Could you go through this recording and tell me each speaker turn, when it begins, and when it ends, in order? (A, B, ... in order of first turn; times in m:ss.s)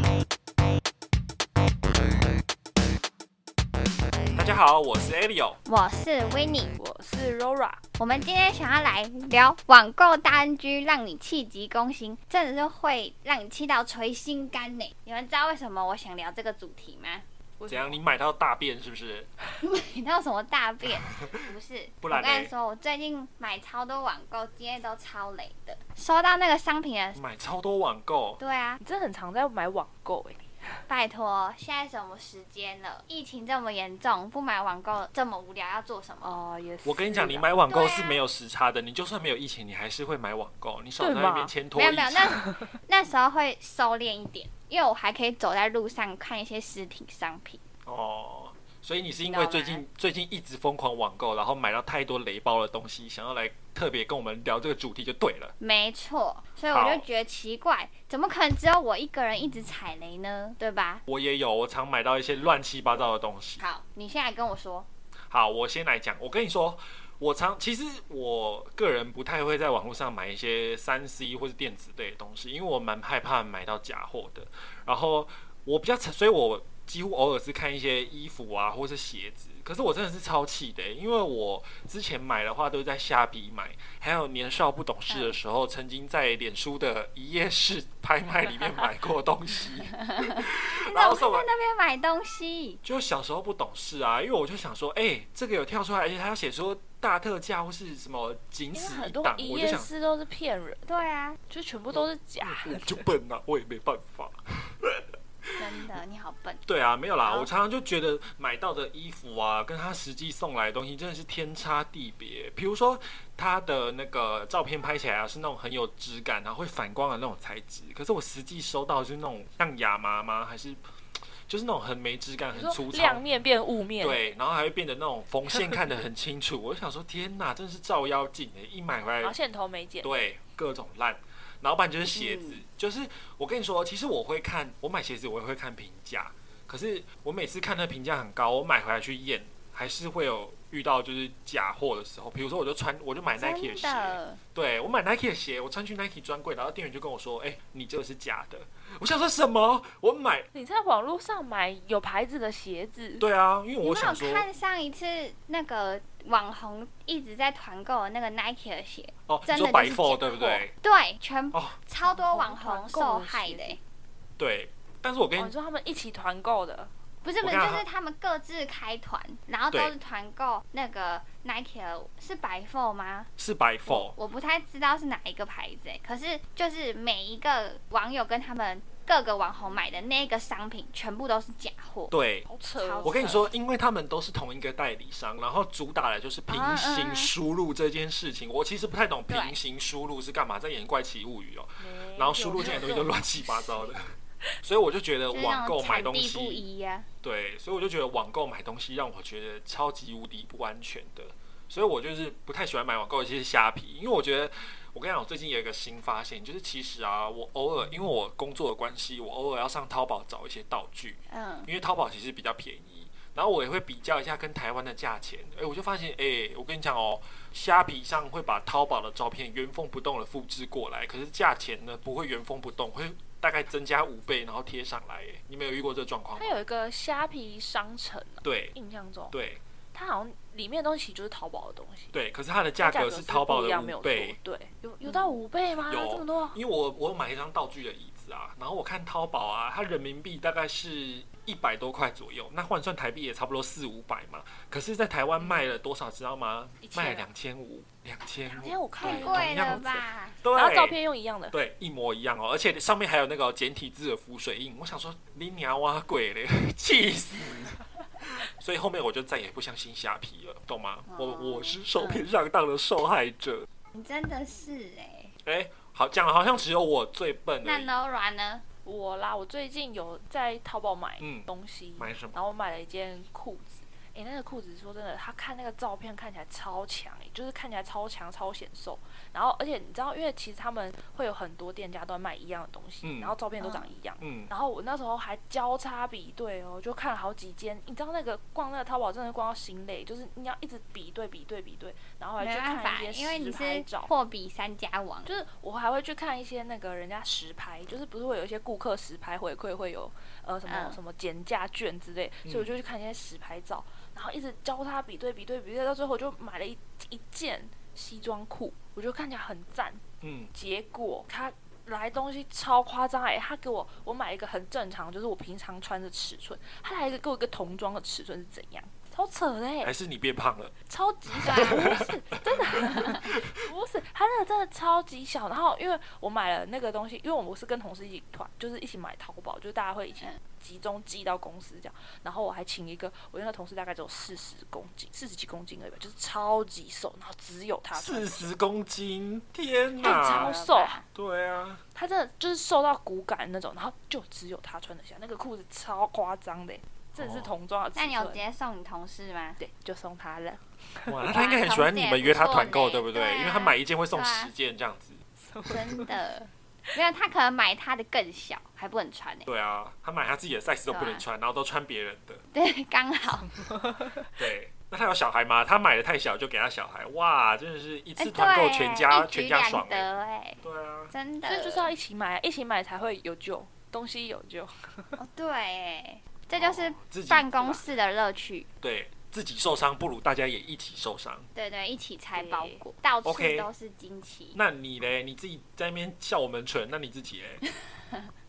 0:04.3-0:05.6 A
0:05.7-0:06.7 B
0:06.8-0:07.8 C
0:08.0-0:17.2 B
0:17.6-0:18.0 C
0:17.7-0:19.3 A
0:19.6-0:27.2 B
0:20.9-0:22.5 A
0:27.2-0:28.4 A
0:28.4-0:28.8 B
0:28.8-0:30.4 C
0:30.9-0:36.4 B
0:36.2-0:37.5 C
0:36.8-0:42.4 A
0:37.7-0:38.2 B
0:41.0-0:41.5 C
0:41.8-0:47.6 B
0:42.3-0:42.7 C
0:47.8-0:55.5 A
0:49.3-0:49.8 B
0:55.6-1:01.0 B
0:56.7-0:57.1 A
1:01.1-1:03.6 A
1:03.6-1:04.9 B
1:05.3-1:31.5 A
1:25.1-1:25.4 B
1:29.9-1:32.8 B
1:32.8-1:39.9 A
1:38.7-1:43.1 C
1:40.9-1:41.4 B
1:41.9-1:45.9 A
1:45.6-1:46.6 B
1:46.7-2:00.8 A
1:47.2-1:47.5 B
2:01.5-2:03.2 A
2:02.5-2:04.2 C
2:04.0-2:09.4 A
2:09.2-2:10.1 C
2:10.0-2:30.5 A
2:12.2-2:12.6 B
2:23.4-2:24.4 B
2:30.5-2:33.3 C
2:33.2-2:34.5 A
2:33.8-2:43.8 B
2:39.3-2:40.7 A
2:42.0-2:43.8 C
2:44.4-2:45.5 A
2:45.4-2:46.9 C
2:47.2-2:53.3 B
2:47.4-2:47.8 A
2:53.4-2:54.2 A
2:53.9-3:02.1 B
3:02.1-3:02.5 A
3:02.5-3:03.4 C
3:02.8-3:03.5 B
3:03.0-3:14.0 A
3:06.5-3:07.3 B
3:09.3-3:09.6 B
3:11.8-3:13.9 C
3:14.6-3:16.6 A
3:15.3-3:17.1 B
3:17.2-3:46.6 A
3:31.3-3:31.7 B
3:46.4-3:49.3 C
3:48.4-3:48.7 A
3:49.3-3:49.6 A
3:49.9-3:52.1 C
3:52.1-3:54.4 A
3:52.8-3:56.6 C
3:55.1-3:55.3 B
3:55.9-4:11.0 A
4:06.9-4:07.2 B
4:08.5-4:09.8 C
4:09.0-4:10.4 B
4:10.5-4:11.6 C
4:11.5-4:23.7 A
4:21.1-4:22.3 B
4:23.9-4:25.3 B
4:25.4-4:27.9 A
4:27.6-4:28.6 B
4:28.8-4:54.1 C
4:31.2-4:32.4 A
4:43.0-4:43.4 A
4:43.6-4:43.9 B
4:44.2-4:44.5 A
4:52.4-4:55.3 B
4:55.3-5:10.0 C
5:00.7-5:01.0 B
5:02.4-5:02.7 A
5:10.2-5:10.5 A
5:10.5-5:19.9 C
5:19.8-5:20.8 A
5:20.9-5:38.5 C
5:21.3-5:22.6 A
5:21.4-5:22.0 B
5:22.8-5:23.3 B
5:37.9-5:40.5 A
5:40.0-5:41.0 C
5:40.0-5:41.0 B
5:41.1-5:41.8 A
5:42.0-5:48.4 C
5:47.2-5:47.5 A
5:48.0-5:49.6 B
5:49.6-5:51.1 C
5:51.1-5:55.2 A
5:51.3-5:54.5 B
5:55.4-5:56.1 C
5:55.6-5:59.5 B
5:59.5-6:02.4 A
6:00.9-6:01.2 B
6:02.5-6:03.5 B
6:03.4-6:04.3 C
6:04.4-6:10.1 A
6:08.2-6:11.9 B
6:10.6-6:11.1 A
6:11.4-6:15.2 C
6:15.2-6:18.7 B
6:16.5-6:17.9 A
6:18.8-6:21.5 A
6:21.6-6:24.6 B
6:22.3-6:22.8 C
6:23.2-6:23.7 A
6:24.6-6:27.6 A